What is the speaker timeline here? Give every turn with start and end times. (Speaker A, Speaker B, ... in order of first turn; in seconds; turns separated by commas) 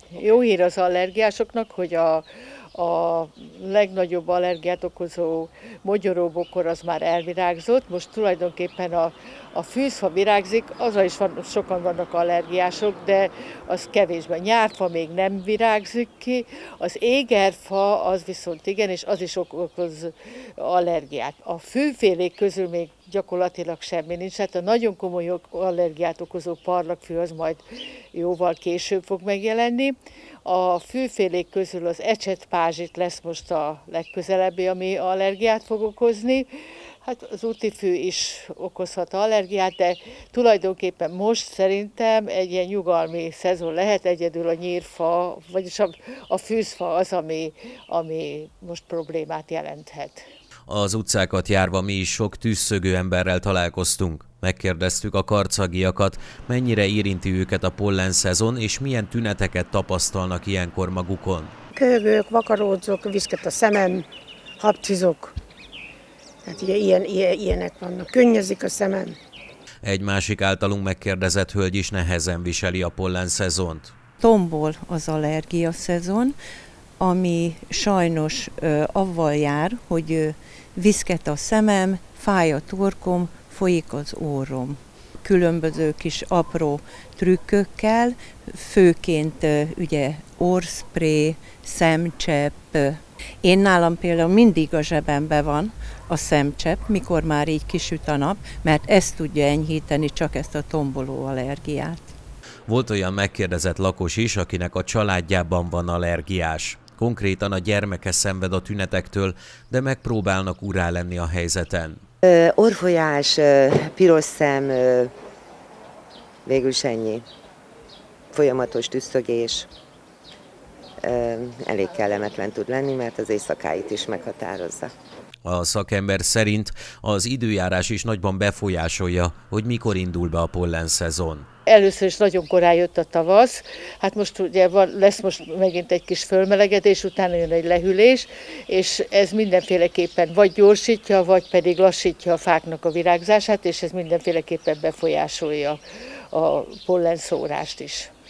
Speaker A: 0.1-27.6, Speaker A: 28.1-36.5, Speaker A: 37.0-50.2, Speaker B: 50.7-61.5, Speaker C: 61.7-64.1, Speaker C: 64.6-65.4, Speaker C: 66.5-69.2, Speaker B: 69.8-74.0, Speaker D: 74.2-76.3, Speaker D: 77.0-102.1, Speaker B: 102.7-112.0, Speaker E: 112.2-115.1, Speaker E: 116.5-117.2, Speaker E: 118.3-119.7, Speaker E: 121.0-124.9, Speaker B: 125.5-131.5, Speaker A: 131.7-145.8, Speaker A: 146.3-148.1